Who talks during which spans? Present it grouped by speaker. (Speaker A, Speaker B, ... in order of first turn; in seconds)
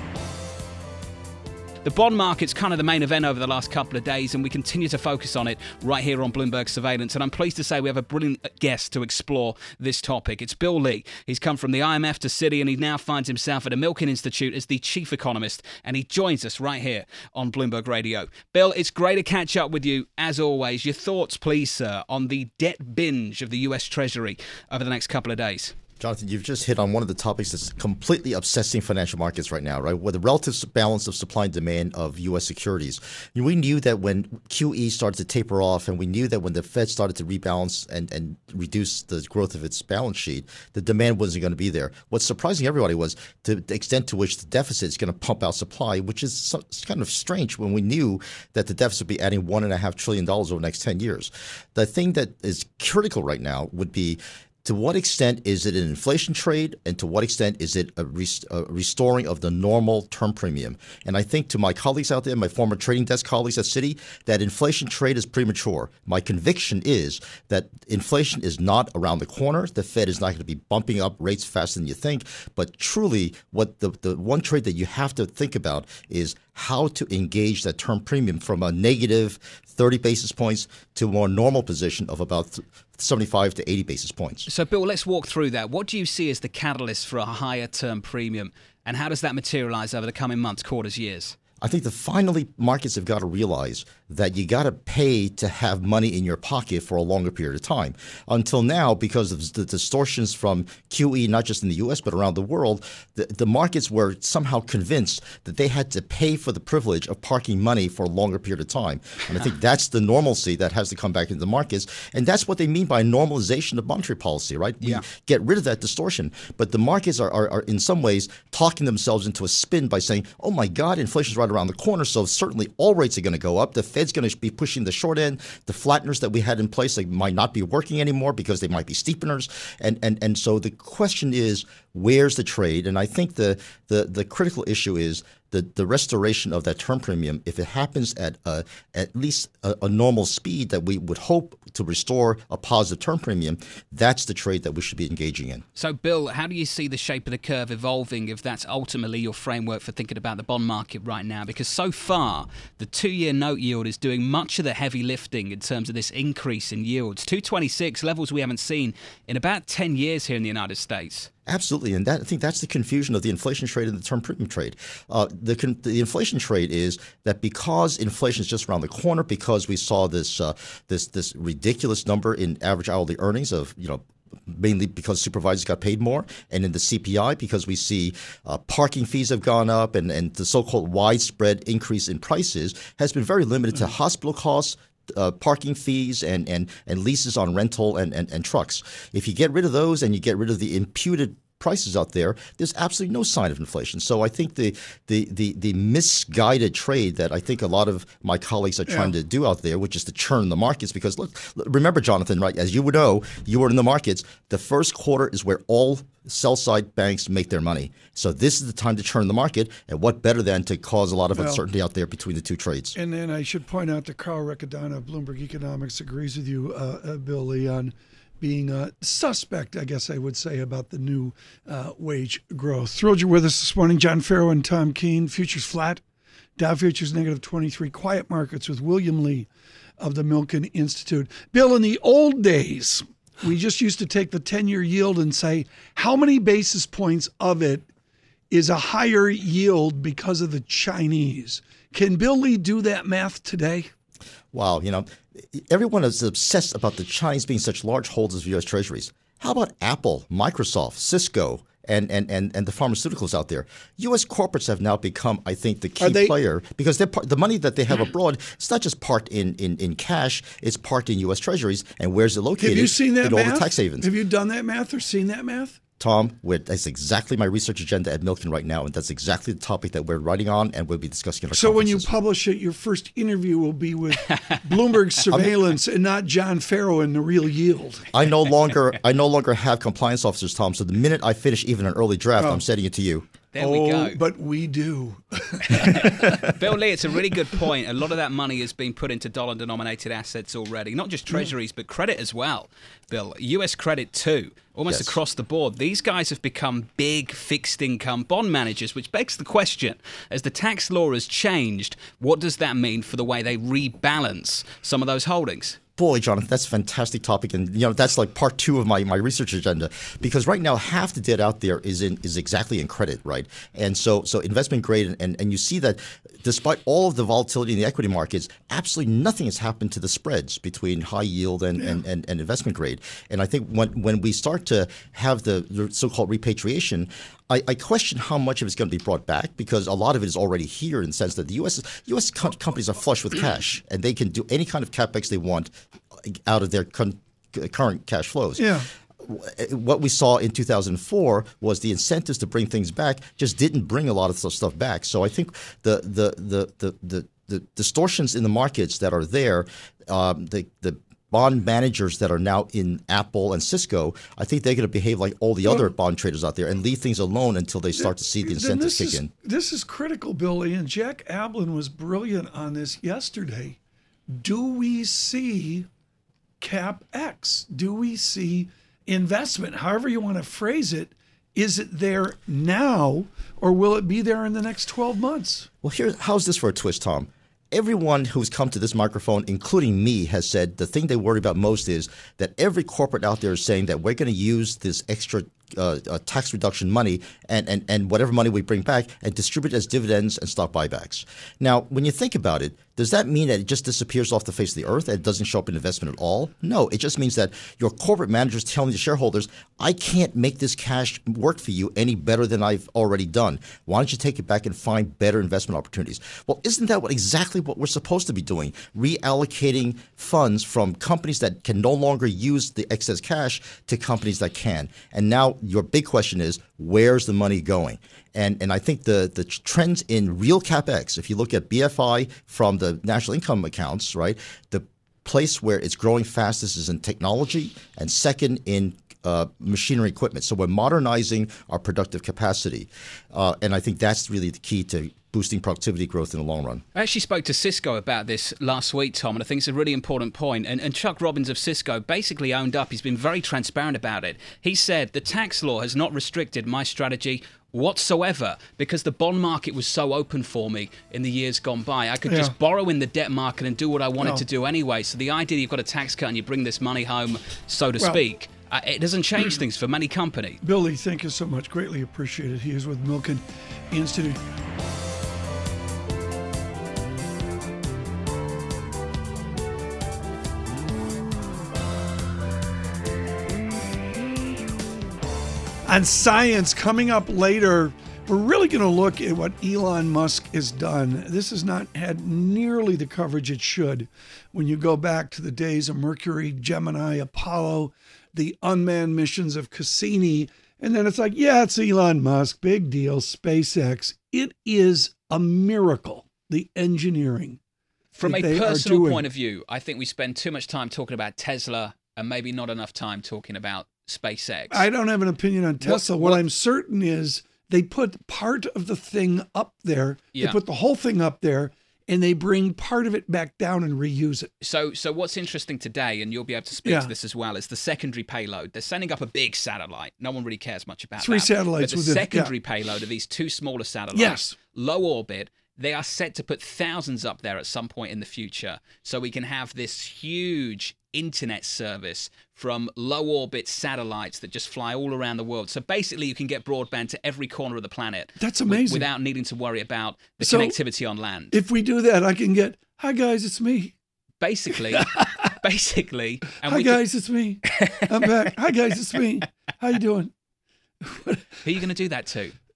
Speaker A: 1.8-25.7, 84.5-91.4, 145.8-161.3, 283.5-284.2, 285.7-305.8, 436.9-460.6, 498.2-504.9, 505.8-506.4, 514.6-541.6, 544.4-547.0, 547.6-548.3, 551.6-552.5
Speaker B: 26.0-84.5, 91.6-145.6, 161.5-212.9, 244.5-264.1, 266.0-272.1, 275.3-275.5, 278.1-283.3, 294.9-295.2, 306.0-359.3, 375.8-436.8
Speaker C: 198.9-199.1, 211.3-211.6, 212.9-226.0, 226.6-229.5, 230.0-237.9, 238.5-243.9, 256.0-256.4, 262.6-265.8, 271.5-278.1, 282.4-282.6, 283.6-286.5, 338.6-338.9, 358.0-363.8, 364.3-365.9, 366.6-375.7, 452.3-452.5, 460.6-464.4, 475.9-497.6, 498.2-499.2, 504.7-514.5, 516.9-517.1, 521.2-522.5, 524.1-524.6, 538.4-539.1, 540.4-540.8, 541.5-544.0, 545.0-545.3, 546.6-550.3, 551.0-551.4